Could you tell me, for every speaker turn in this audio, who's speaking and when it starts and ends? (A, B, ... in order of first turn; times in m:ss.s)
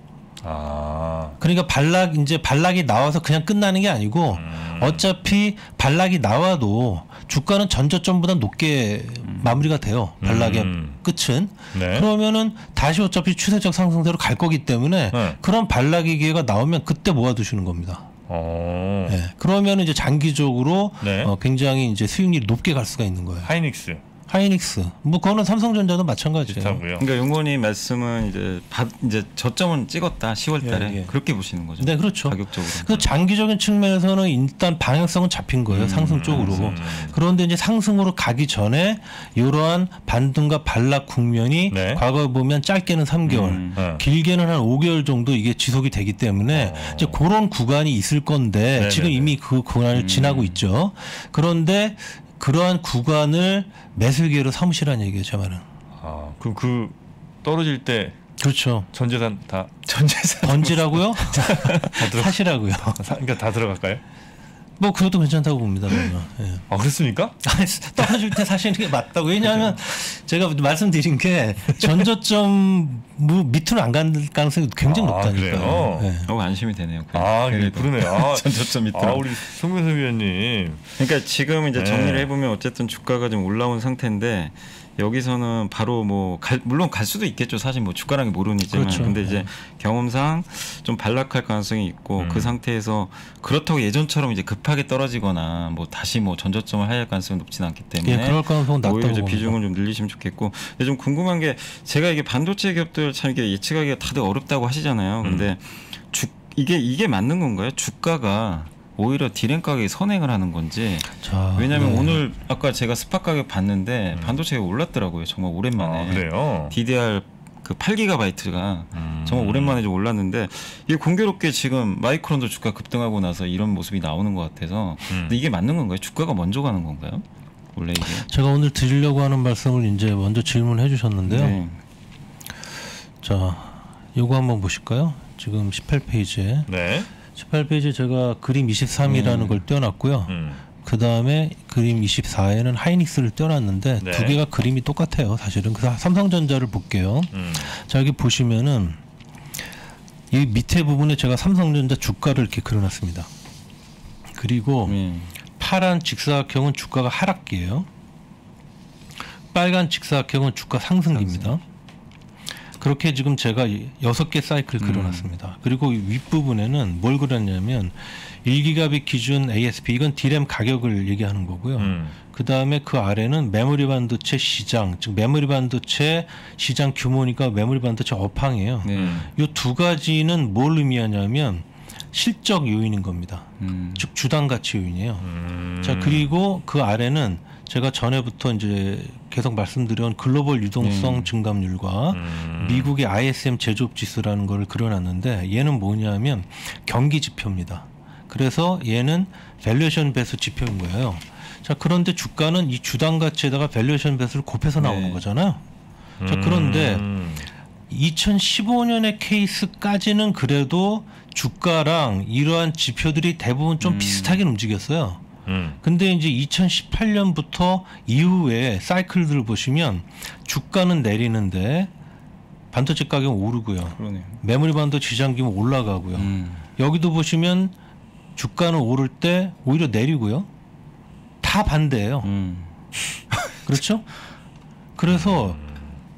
0:00.4-0:01.4 A
0:01.4-0:18.1 B
0:04.3-0:05.1 A
0:09.2-0:09.7 C
0:10.2-0:11.0 A
0:11.7-0:12.1 A
0:15.1-0:15.4 A
0:18.3-0:19.2 A
0:19.1-0:23.5 B
0:21.0-0:21.3 A
0:23.4-0:24.0 A
0:24.3-0:26.8 B
0:26.5-0:27.1 A
0:27.0-0:33.0 C
0:30.6-0:31.1 B
0:31.8-0:55.6 B
0:35.7-0:36.7 C
0:36.1-0:37.2 A
0:41.7-0:42.0 A
0:43.3-0:43.8 C
0:43.7-0:44.0 A
0:46.5-0:47.2 A
0:48.8-0:49.4 A
0:49.9-0:50.6 C
0:56.0-0:58.3 A
0:58.4-0:58.9 B
0:58.9-0:59.7 A
0:59.9-1:02.0 C
1:00.4-1:03.2 B
1:01.5-1:04.0 A
1:04.8-1:06.6 B
1:06.7-1:07.4 A
1:07.4-1:16.3 B
1:14.8-1:16.1 A
1:15.6-1:19.6 C
1:17.1-1:21.0 A
1:21.0-2:08.3 C
1:21.8-1:22.3 A
1:28.7-1:29.5 B
1:32.2-1:32.5 A
1:38.0-1:39.6 B
1:45.2-1:45.5 A
1:51.2-1:52.2 B
1:55.8-1:56.8 A
1:58.9-1:59.8 A
2:05.1-2:05.4 A
2:08.0-2:11.6 B
2:11.3-2:11.8 C
2:13.2-2:16.7 B
2:16.7-2:17.1 A
2:17.3-2:29.0 B
2:19.0-2:19.6 C
2:20.3-2:20.6 A
2:24.0-2:24.4 A
2:27.3-2:27.7 A
2:30.3-2:33.3 B
2:34.4-2:35.0 B
2:34.9-2:35.3 C
2:35.6-2:37.9 B
2:39.5-2:41.6 B
2:41.1-2:41.6 C
2:42.8-3:05.3 B
2:44.8-2:45.3 C
2:51.8-2:52.2 A
2:58.8-2:59.3 C
2:58.9-2:59.3 A
3:03.6-3:04.1 C
3:05.2-3:06.3 A
3:05.8-3:25.6 B
3:10.8-3:11.3 C
3:12.1-3:12.9 A
3:24.8-3:25.2 C
3:26.2-3:27.5 A
3:26.2-3:27.0 B
3:27.9-3:35.2 B
3:33.8-3:34.4 C
3:35.5-3:35.8 A
3:35.8-3:41.9 B
3:42.7-3:47.7 B
3:44.0-3:44.4 C
3:46.2-3:46.6 C
3:48.4-3:50.5 B
3:51.4-3:52.3 B
3:52.2-3:52.8 C
3:53.3-3:53.8 C
3:53.6-3:54.1 B
3:55.0-3:55.6 B
3:55.1-3:56.0 A